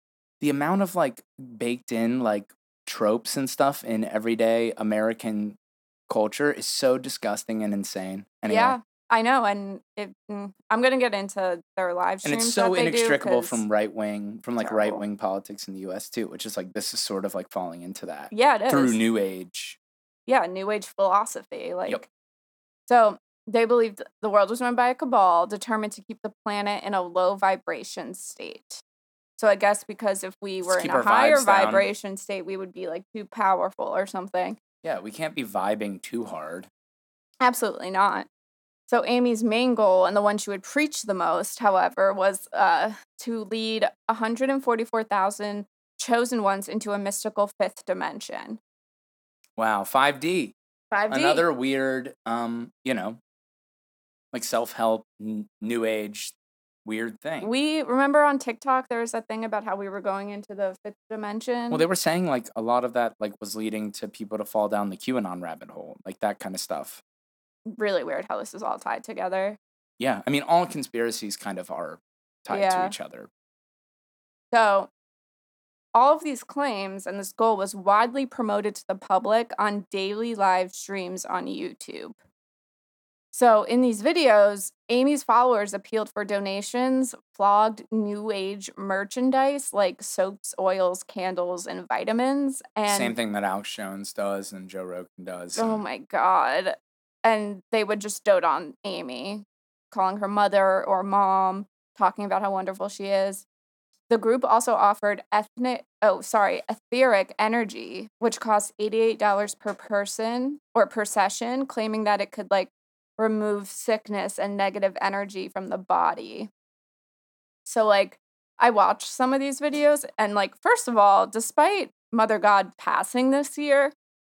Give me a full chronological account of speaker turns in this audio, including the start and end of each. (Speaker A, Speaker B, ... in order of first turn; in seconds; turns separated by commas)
Speaker A: 0.4-5.6, Speaker A: 6.1-8.8, Speaker B: 8.5-13.6, Speaker A: 12.2-19.8, Speaker B: 14.6-15.0, Speaker B: 18.3-19.0, Speaker B: 20.3-22.1, Speaker B: 22.9-28.8, Speaker B: 29.4-34.6, Speaker A: 30.6-31.9, Speaker A: 34.8-36.7, Speaker B: 37.4-38.3, Speaker B: 38.9-48.6, Speaker A: 49.6-50.5, Speaker B: 50.9-51.5, Speaker A: 51.1-53.2, Speaker A: 54.3-57.5, Speaker B: 57.4-61.8, Speaker A: 61.7-67.0, Speaker B: 67.7-69.6, Speaker A: 70.0-73.3, Speaker B: 72.5-72.9, Speaker B: 74.5-74.9, Speaker B: 75.9-82.2, Speaker B: 83.3-93.2, Speaker A: 92.9-95.8, Speaker B: 95.5-103.4, Speaker B: 104.1-116.5, Speaker B: 117.7-123.9